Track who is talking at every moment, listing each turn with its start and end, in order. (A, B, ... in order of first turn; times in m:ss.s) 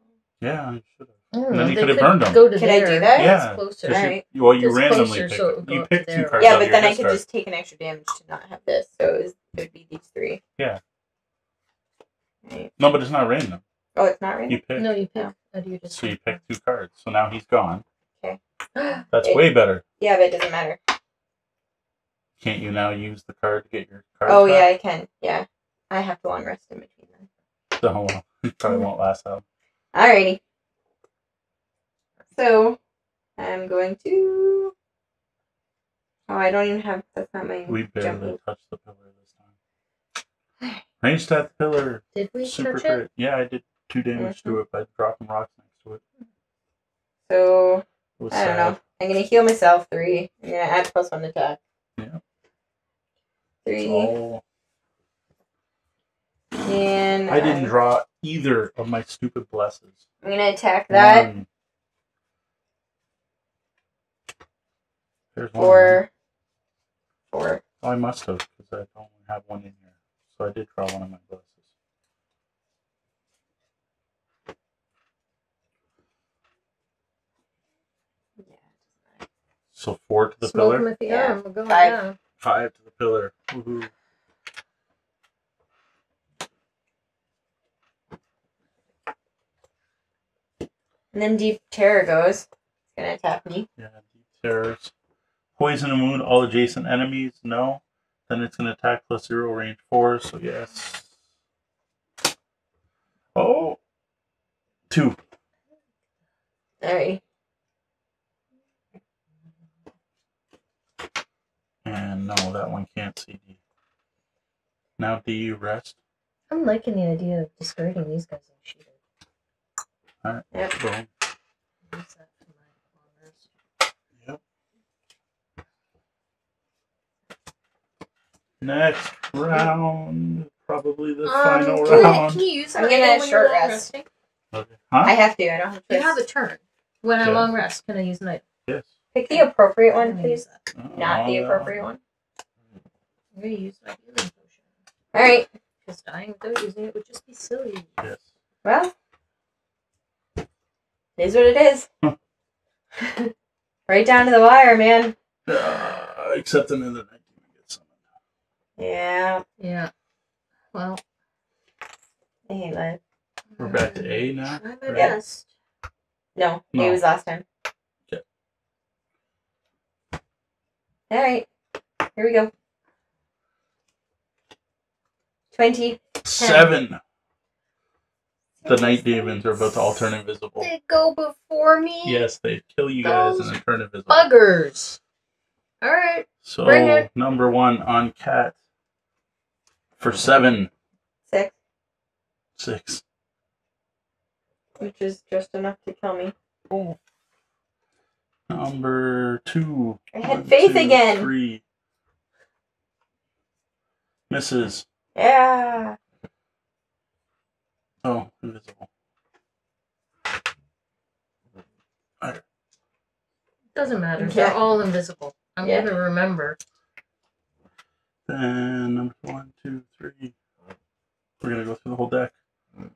0:00.4-0:02.4 A
0:01.3-0:06.6 B
0:02.6-0:03.3 C
0:03.1-0:07.2 A
0:03.8-0:04.2 C
0:06.4-0:10.4 C
0:12.4-0:12.7 C
0:12.8-0:13.6 A
0:14.0-0:14.6 C
0:14.5-0:14.9 A
0:14.8-0:16.4 B
0:15.9-0:17.8 A
0:18.7-0:19.0 B
0:19.0-0:19.4 C
0:19.1-0:19.8 A
0:20.0-0:20.8 C
0:22.4-0:24.7 A
0:24.2-0:27.3 C
0:27.8-0:29.4 A
0:29.9-0:30.4 C
0:32.3-0:32.8 C
0:33.4-0:34.7 C
0:36.3-0:38.4 C
0:37.7-0:39.4 A
0:41.0-0:46.0 A
0:42.1-0:43.0 B
0:44.2-0:44.6 C
0:47.3-0:51.6 C
0:48.2-0:48.8 A
0:53.6-0:54.1 C
0:53.8-0:54.4 A
0:56.6-0:57.7 C
0:57.3-1:00.0 A
1:00.2-1:01.3 C
1:00.9-1:01.5 A
1:05.3-1:06.0 A
1:05.6-1:06.1 C
1:07.3-1:07.6 C
1:07.8-1:11.6 A
1:19.7-1:20.8 A
1:20.4-1:22.2 B
1:21.0-1:22.0 C
1:22.4-1:23.9 A
1:31.1-1:33.7 C
1:33.8-1:34.9 A
1:35.6-1:41.1 A
1:43.3-1:43.8 A
1:44.9-1:45.2 A
1:46.8-1:47.2 C
1:51.8-1:53.6 A
1:55.0-1:56.0 A
1:56.5-1:58.9 B
2:00.2-2:01.1 A
2:01.9-2:03.5 B
2:08.6-2:12.4 A
2:11.2-2:14.0 B
2:11.8-2:12.2 C
2:12.8-2:13.9 C
2:14.5-2:15.1 A
2:15.0-2:16.2 C
2:15.9-2:18.4 B
2:17.2-2:17.5 A
2:18.7-2:18.9 A
2:19.1-2:22.0 C
2:20.0-2:20.6 B
2:20.7-2:21.8 A
2:23.3-2:24.5 B
2:25.1-2:25.5 C
2:25.8-2:27.9 B
2:28.0-2:28.3 A
2:28.6-2:28.9 C
2:31.2-2:31.9 C
2:33.0-2:33.3 C
2:33.9-2:35.2 C
2:35.5-2:37.9 A
2:38.8-2:39.4 C
2:39.6-2:39.9 B
2:40.7-2:41.0 B
2:42.5-2:43.0 C
2:43.5-2:45.5 B
2:43.6-2:45.1 A
2:44.9-2:45.2 C
2:46.4-2:47.4 C
2:46.7-2:47.0 A
2:51.1-2:51.5 C
2:52.2-2:52.5 C
2:55.5-2:56.0 C
2:56.2-2:57.0 A
2:56.3-2:56.7 B
2:58.6-2:59.6 C
2:58.6-3:00.7 A
3:00.6-3:02.2 B
3:02.0-3:04.3 A
3:03.0-3:03.5 B
3:04.1-3:05.0 B
3:05.8-3:07.1 B
3:06.4-3:08.6 A
3:10.0-3:10.7 A
3:12.6-3:13.0 A
3:14.8-3:16.3 C
3:16.7-3:17.0 A
3:18.5-3:21.6 A
3:20.1-3:21.3 C
3:24.3-3:24.8 A
3:25.1-3:26.0 C
3:28.0-3:28.9 A
3:33.7-3:36.6 B
3:34.2-3:34.6 C
3:35.6-3:35.9 C
3:38.3-3:40.3 A
3:41.4-3:42.3 A